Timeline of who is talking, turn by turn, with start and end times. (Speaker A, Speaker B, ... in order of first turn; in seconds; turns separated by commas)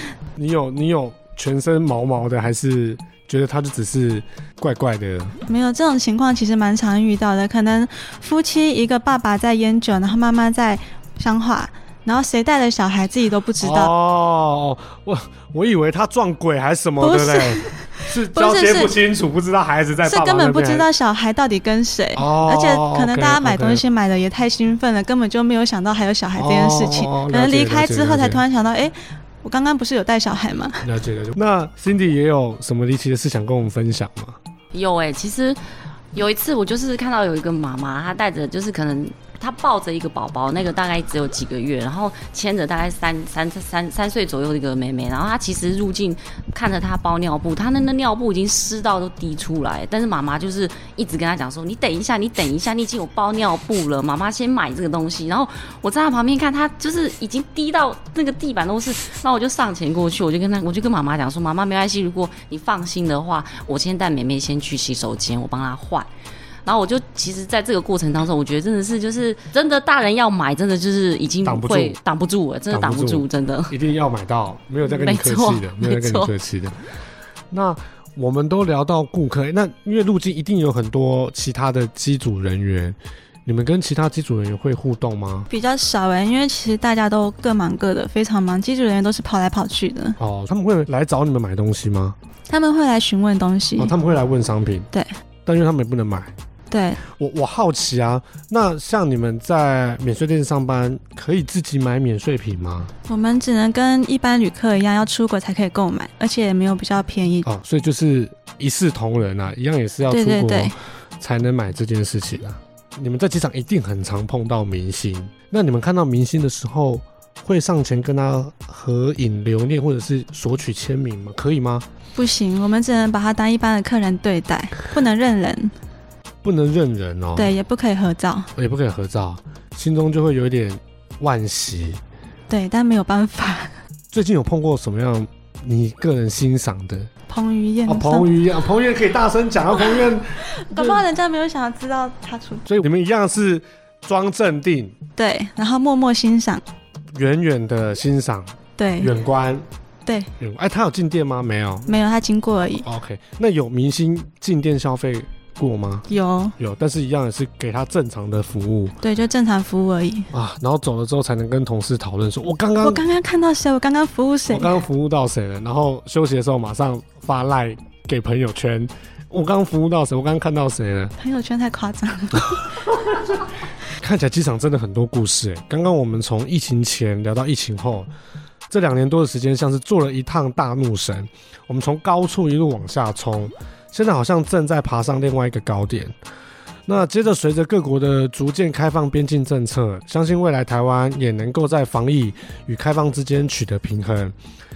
Speaker A: 0.4-5.3, Speaker B: 5.5-13.9, Speaker A: 13.6-20.9, Speaker B: 17.0-18.9, Speaker B: 20.0-30.8, Speaker A: 22.1-23.8, Speaker A: 26.3-28.4, Speaker A: 30.8-34.4, Speaker C: 34.7-35.6, Speaker C: 36.1-66.1, Speaker C: 66.6-73.8, Speaker A: 71.4-72.0, Speaker A: 72.7-76.8, Speaker C: 74.8-76.3, Speaker A: 77.5-85.5, Speaker B: 85.5-90.2, Speaker A: 90.2-92.2, Speaker B: 92.5-93.9, Speaker A: 93.8-94.9, Speaker A: 95.5-96.3, Speaker B: 96.7-97.0, Speaker A: 97.1-102.9, Speaker B: 103.1-107.5, Speaker A: 107.4-121.8, Speaker B: 110.1-110.7, Speaker B: 122.1-125.7, Speaker A: 126.4-127.5, Speaker B: 127.3-128.5, Speaker A: 128.6-132.0, Speaker B: 132.5-133.7, Speaker A: 134.1-137.1, Speaker B: 137.3-138.3, Speaker A: 137.8-141.0, Speaker B: 140.3-142.7, Speaker A: 142.7-144.9, Speaker B: 145.2-146.6, Speaker A: 147.1-149.7, Speaker B: 148.8-149.1, Speaker B: 150.0-150.3, Speaker A: 150.4-151.9, Speaker B: 151.9-152.8, Speaker A: 152.7-156.1, Speaker B: 156.1-156.5, Speaker A: 156.6-158.9, Speaker B: 159.0-160.3, Speaker A: 160.3-163.0, Speaker B: 162.8-164.8, Speaker A: 164.5-171.1, Speaker B: 171.2-172.7, Speaker A: 174.0-178.1, Speaker A: 178.7-186.1, Speaker A: 186.9-194.3